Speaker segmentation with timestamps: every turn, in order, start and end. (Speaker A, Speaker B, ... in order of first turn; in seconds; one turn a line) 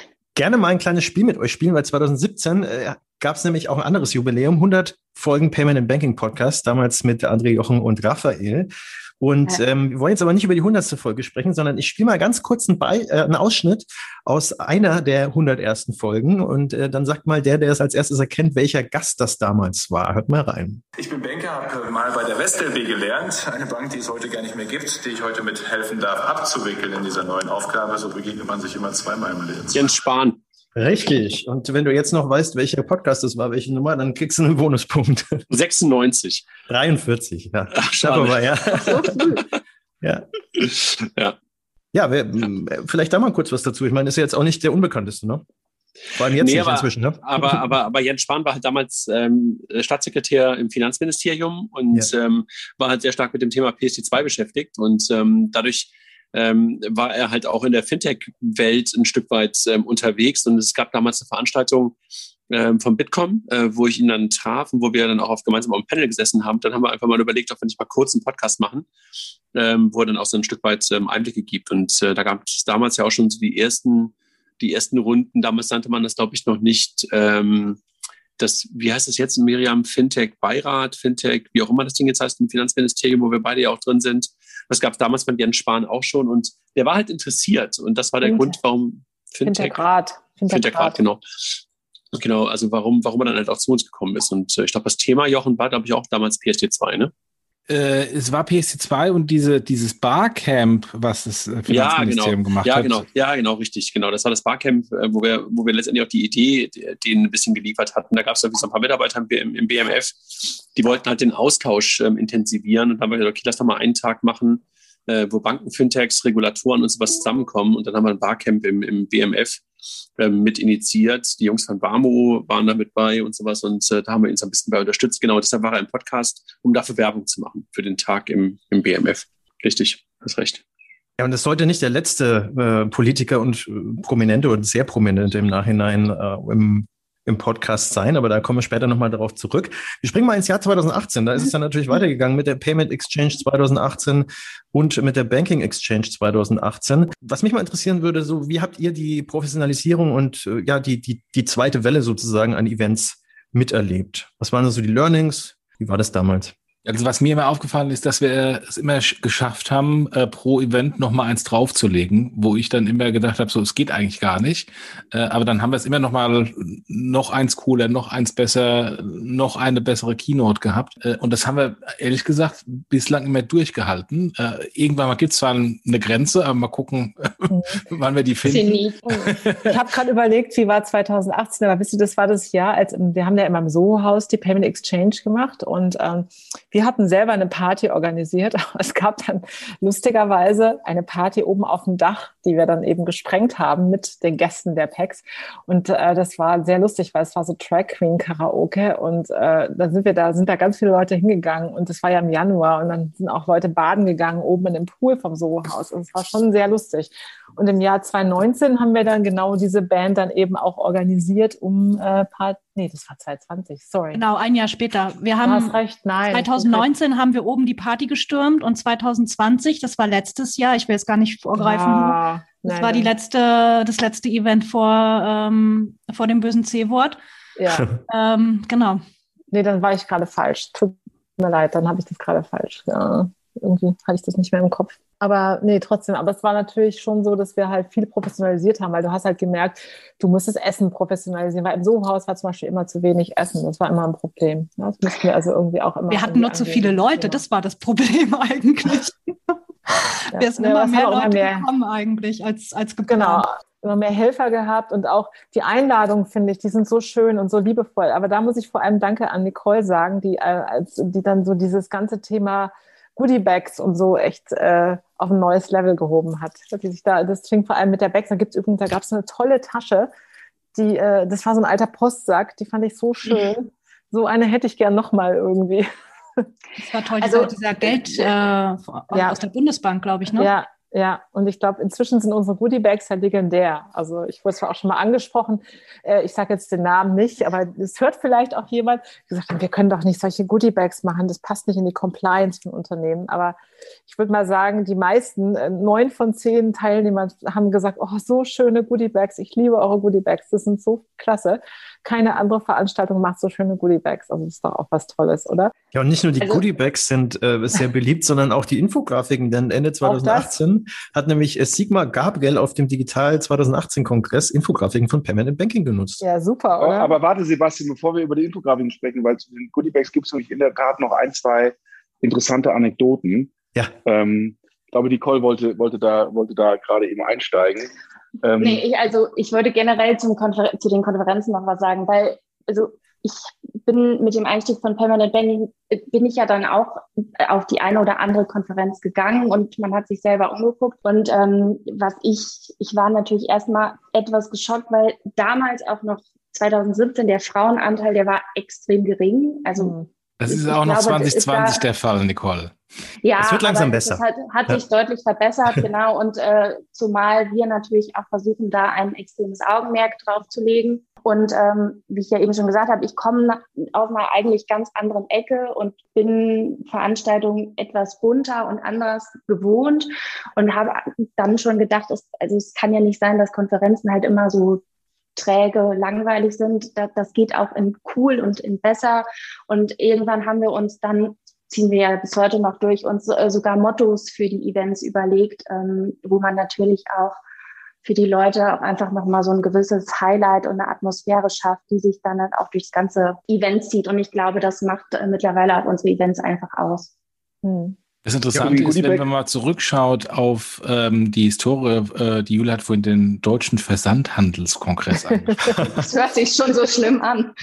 Speaker A: 0.4-20.8
Speaker B: 21.0-29.9
Speaker C: 29.7-30.4
Speaker A: 30.8-35.4
Speaker C: 35.5-36.5
Speaker A: 36.7-39.3
Speaker C: 37.8-39.5
Speaker A: 41.9-45.4
Speaker A: 46.2-47.6
Speaker C: 46.4-62.0
Speaker C: 62.5-68.9
Speaker C: 69.5-77.8
Speaker C: 78.4-89.9
Speaker D: 88.2-88.6
Speaker D: 89.4-91.0
Speaker C: 90.5-91.6
Speaker C: 92.1-97.1
Speaker E: 97.7-103.0
Speaker C: 101.7-119.6
Speaker C: 120.2-130.6
Speaker A: 131.2-156.5
Speaker E: 156.8-179.8
Speaker D: 177.5-177.8
Speaker F: 178.5-179.1
Speaker D: 179.7-214.2
Speaker G: 214.1-215.8
Speaker D: 215.4-216.9
Speaker G: 216.3-227.2
Speaker D: 221.6-223.1
Speaker D: 227.6-227.9
Speaker G: 228.1-229.0
Speaker D: 229.5-247.4
Speaker G: 246.1-249.1
Speaker G: 249.9-253.5
Speaker D: 250.3-251.7
Speaker D: 253.1-270.1
Speaker D: 270.8-275.9
Speaker G: 276.8-280.5
Speaker F: 277.2-278.3
Speaker D: 279.1-279.4
Speaker D: 280.3-305.7
Speaker A: 305.9-316.2
Speaker D: 310.0-310.5
Speaker D: 316.2-317.2
Speaker H: 316.8-323.5
Speaker H: 324.1-327.9
Speaker H: 328.4-328.8
Speaker F: 328.6-349.9
Speaker D: 349.8-350.1
Speaker E: 350.4-352.7
Speaker F: 350.5-351.8
Speaker F: 353.2-374.8
Speaker A: 353.4-354.8
Speaker F: 375.4-387.4
Speaker F: 388.0-397.1
Speaker D: 397.6-398.0
Speaker E: 398.2-405.9
Speaker H: 398.6-399.3
Speaker D: 405.3-405.7
Speaker F: 406.0-407.5